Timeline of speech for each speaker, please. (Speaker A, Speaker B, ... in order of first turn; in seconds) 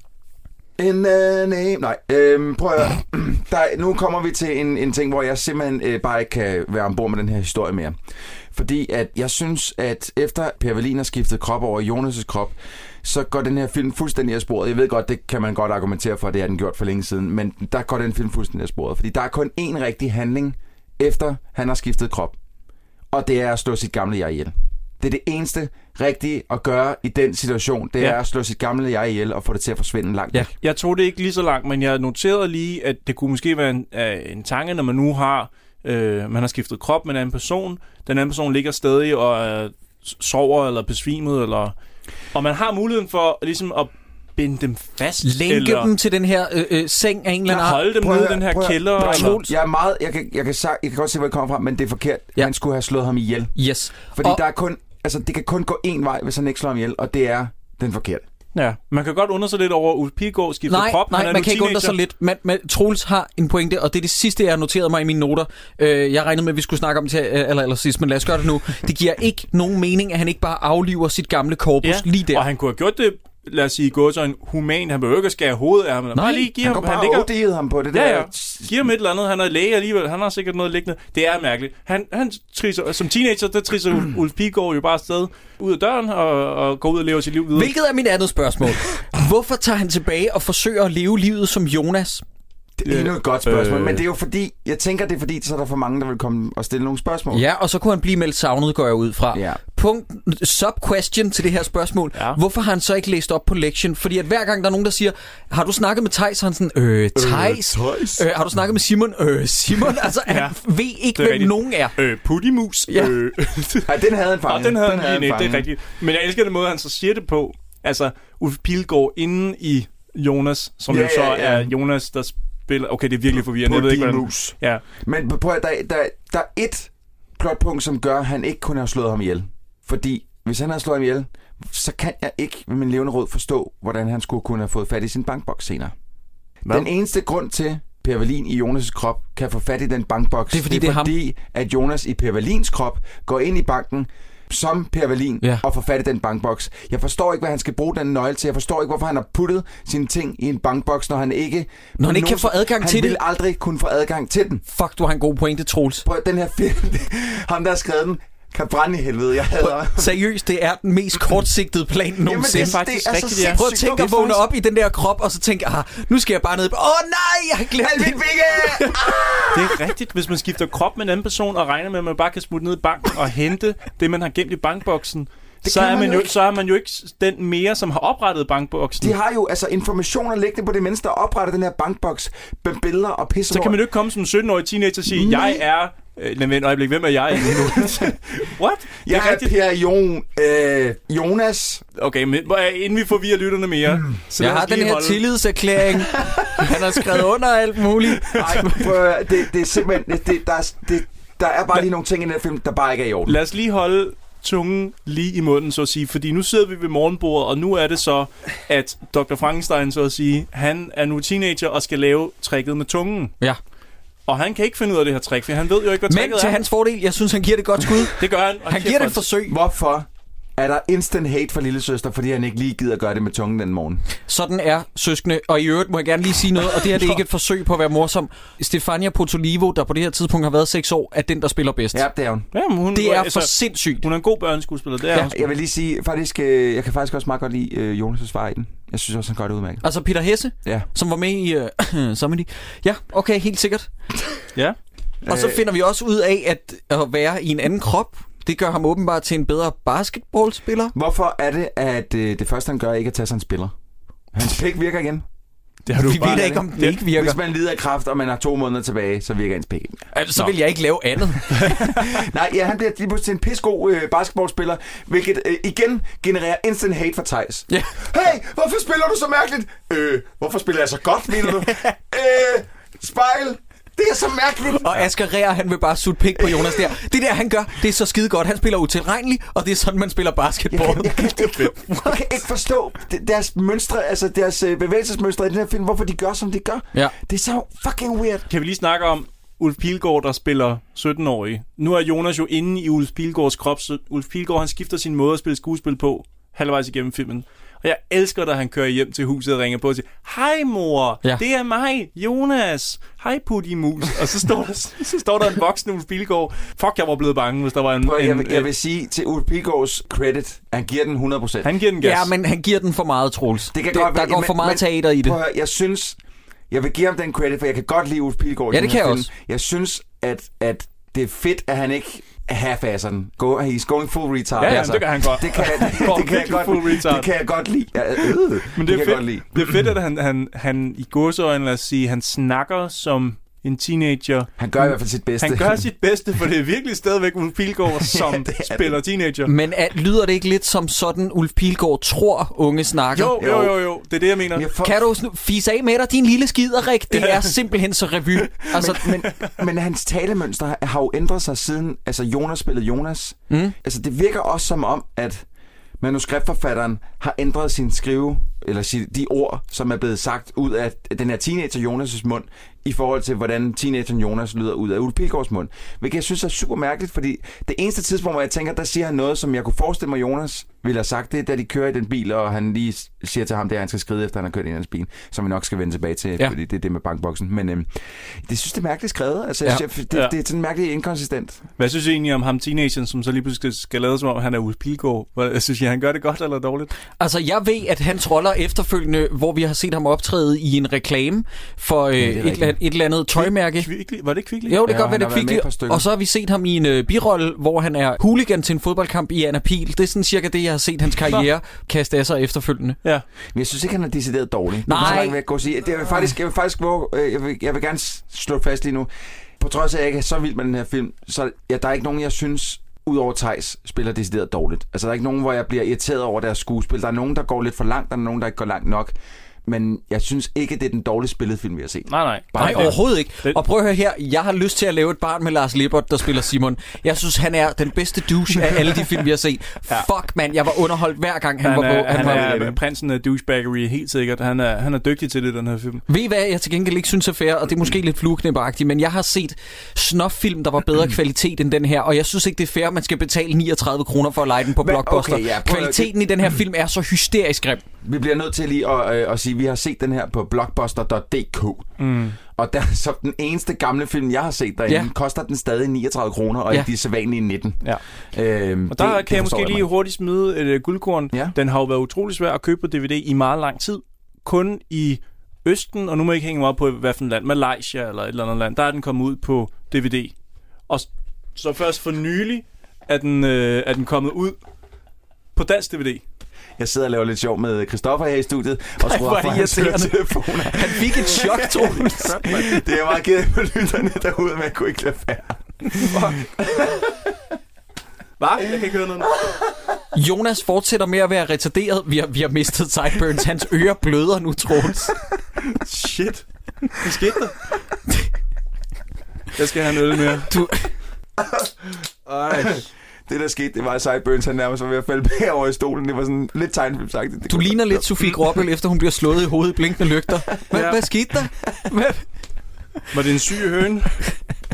Speaker A: 0.8-8.0, 8.5-22.4, 23.1-30.5, 47.9-53.5, 54.1-58.2, 76.6-78.7, 92.8-97.4, 99.3-99.6, 107.1-108.2, 113.8-115.7, 120.9-121.7, 123.3-135.9, 136.7-154.6, 156.0-160.1, 162.2-164.2, 167.8-169.8, 175.6-176.3, 179.0-183.8, 185.1-185.6, 187.5-188.1, 189.0-191.8, 198.3-203.4, 219.5-224.0, 231.9-232.5, 235.2-239.8, 245.2-245.7, 250.9-253.7, 254.3-255.2, 256.1-260.5, 261.6-275.1, 276.3-276.9, 280.7-288.4, 308.0-311.7, 313.7-316.2, 316.7-329.8, 334.6-335.9, 338.0-339.0, 343.4-343.7, 344.5-345.0, 348.7-355.4, 356.0-377.9, 378.4-381.6, 392.2-392.8, 394.8-396.0, 403.5-423.0, 432.1-432.8, 444.8-446.3, 448.0-451.9, 452.5-459.9, 476.8-487.0, 501.4-501.7, 502.4-508.3
Speaker B: 30.6-41.7, 42.3-45.9, 47.5-49.4, 58.5-62.0, 71.8-77.3, 77.9-87.7, 92.8-94.0, 110.3-110.6, 111.1-113.9, 114.5-124.8, 162.4-164.4, 169.5-179.1, 183.5-189.5, 191.9-195.2, 203.2-213.3, 214.3-216.6, 218.2-219.3, 232.5-235.4, 255.8-257.0, 288.5-308.7, 311.6-312.3, 324.6-327.3, 328.7-334.5, 335.4-339.5, 343.1-344.7, 347.1-347.5, 348.8-349.5, 381.8-386.9, 393.4-394.8, 422.1-423.6, 431.6-436.0, 452.0-452.4, 458.9-470.3, 470.9-474.6, 475.5-476.2, 486.0-486.5, 488.4-489.4, 495.7-497.6, 499.6-500.5, 502.4-502.7, 510.7-511.0, 513.1-514.2
Speaker C: 45.2-47.9, 49.0-49.5, 53.5-54.4, 60.7-72.4, 76.1-76.5, 87.5-92.2, 97.3-111.9, 112.9-113.1, 140.5-141.1, 152.0-153.2, 154.7-156.0, 159.6-162.8, 163.4-168.9, 194.4-198.8, 216.1-219.5, 224.3-232.0, 232.9-234.0, 239.8-243.9, 245.3-250.9, 255.9-257.4, 260.1-261.9, 267.7-267.9, 274.8-282.1, 312.0-315.4, 318.7-319.3, 339.4-343.4, 344.8-349.0, 387.2-393.9, 394.7-403.0, 404.9-405.4, 422.6-432.6, 436.1-447.8, 479.0-482.7, 490.1-495.1, 500.5-500.9, 507.5-512.2